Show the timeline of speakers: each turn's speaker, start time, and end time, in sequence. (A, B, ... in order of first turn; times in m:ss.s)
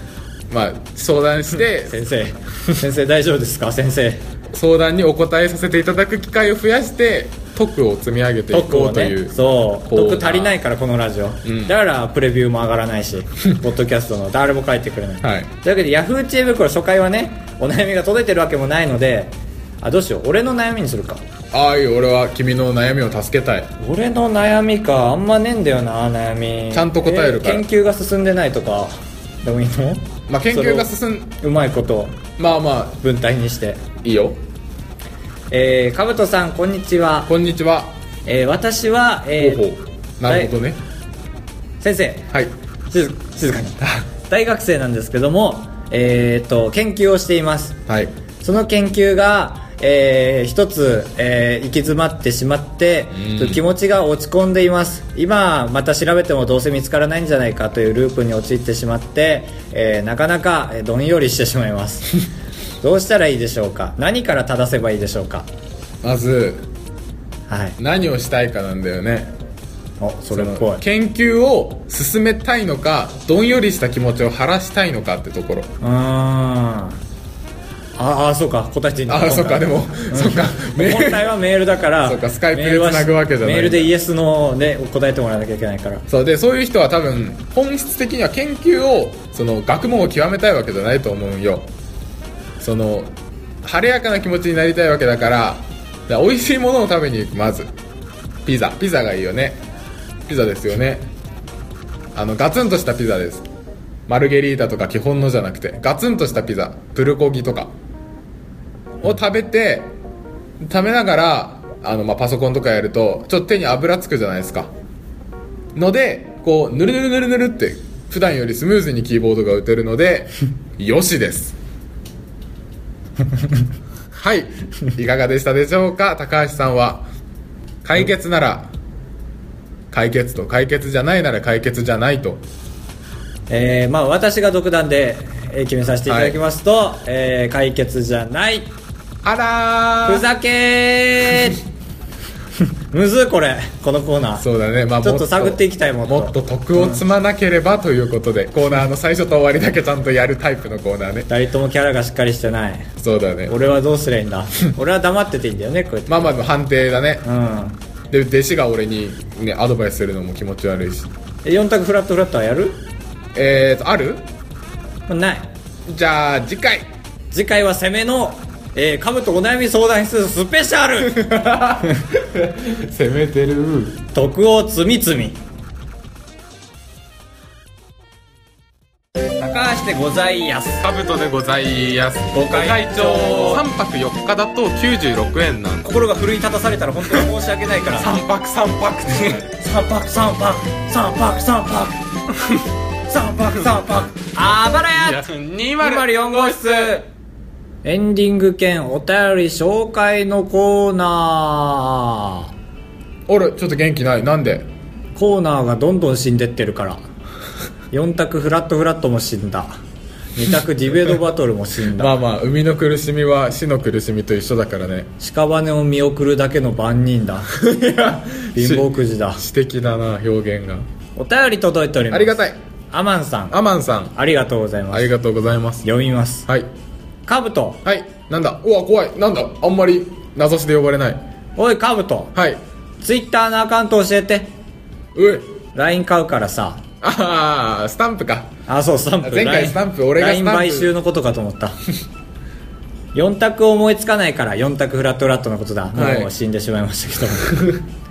0:00.5-0:02.0 A
0:01.6-0:04.2 B
0:04.5-0:10.6 A
0:08.5-0:21.2 B
0:11.4-0:11.8 A
0:15.2-0:15.5 A
0:21.5-0:23.7 A
0:23.8-0:30.9 B
0:26.7-0:27.6 A
0:30.3-0:31.4 A
0:31.4-0:32.2 B
0:32.4-0:33.0 A
0:33.0-0:33.8 B
0:34.0-0:34.4 A
0:35.5-0:37.3 B
0:37.3-0:38.0 A
0:38.3-0:39.6 B
0:39.4-0:40.8 A
0:40.3-0:40.5 B
0:41.8-0:42.3 B
0:42.9-0:47.8 B
0:48.4-1:02.2 B
0:53.2-0:53.6 A
1:02.8-1:05.5 B
1:06.0-1:06.7 A
1:07.5-1:07.8 B
1:07.8-1:09.4 A
1:10.0-1:10.8 B
1:10.3-1:15.7 A
1:15.8-1:17.0 B
1:18.0-1:26.0 B
1:19.1-1:21.3 A
1:22.0-1:23.9 A
1:26.1-1:31.7 A
1:32.6-1:37.7 A
1:38.4-1:39.6 A
1:40.3-1:41.1 A
1:42.1-1:43.4 A
1:44.1-1:47.7 A
1:49.0-1:50.0 A
1:50.6-1:54.7 A
1:55.8-2:01.6 A
2:04.2-2:07.1 A
2:07.8-2:08.7 A
2:09.9-2:12.4 A
2:13.5-2:18.7 B
2:16.1-2:16.4 A
2:19.2-2:20.3 A
2:20.1-2:21.6 B
2:22.6-2:24.4 B
2:24.4-2:31.3 A
2:25.0-2:27.0 B
2:31.3-2:32.9 B
2:33.0-2:33.6 A
2:33.5-2:36.3 B
2:36.1-2:37.3 A
2:37.2-2:37.8 B
2:38.1-2:41.1 A
2:41.4-2:42.8 B
2:43.3-2:44.2 A
2:45.1-2:45.5 B
2:45.9-2:46.9 A
2:47.3-2:51.2 B
2:51.1-2:54.0 A
2:54.1-2:55.4 B
2:59.4-3:00.9 B
3:00.8-3:05.9 A
3:02.3-3:03.6 B
3:05.8-3:08.1 B
3:07.9-3:09.5 A
3:09.1-3:12.0 B
3:12.4-3:12.6 A
3:13.1-3:15.3 B
3:14.9-3:17.0 A
3:15.8-3:17.0 B
3:17.8-3:22.5 B
3:23.3-3:24.7 A
3:25.2-3:27.0 B
3:27.9-3:29.8 B
3:30.4-3:32.2 B
3:32.0-3:35.1 A
3:35.2-3:37.5 B
3:37.5-3:40.8 A
3:38.6-3:39.4 B
3:41.2-3:42.4 B
3:42.1-3:42.6 A
3:42.9-3:43.6 B
3:43.5-3:44.1 A
3:44.2-3:45.1 B
3:44.9-3:45.9 A
3:45.8-3:46.5 B
3:47.3-3:47.8 B
3:47.8-3:51.2 A
3:51.6-3:52.3 B
3:52.4-3:52.6 A
3:53.0-3:54.5 B
3:55.2-3:55.5 A
3:55.7-3:56.8 B
3:57.0-3:58.5 A
3:58.7-4:01.8 B
3:59.2-4:00.9 A
4:03.1-4:07.7 B
4:05.9-4:06.3 A
4:07.4-4:07.8 A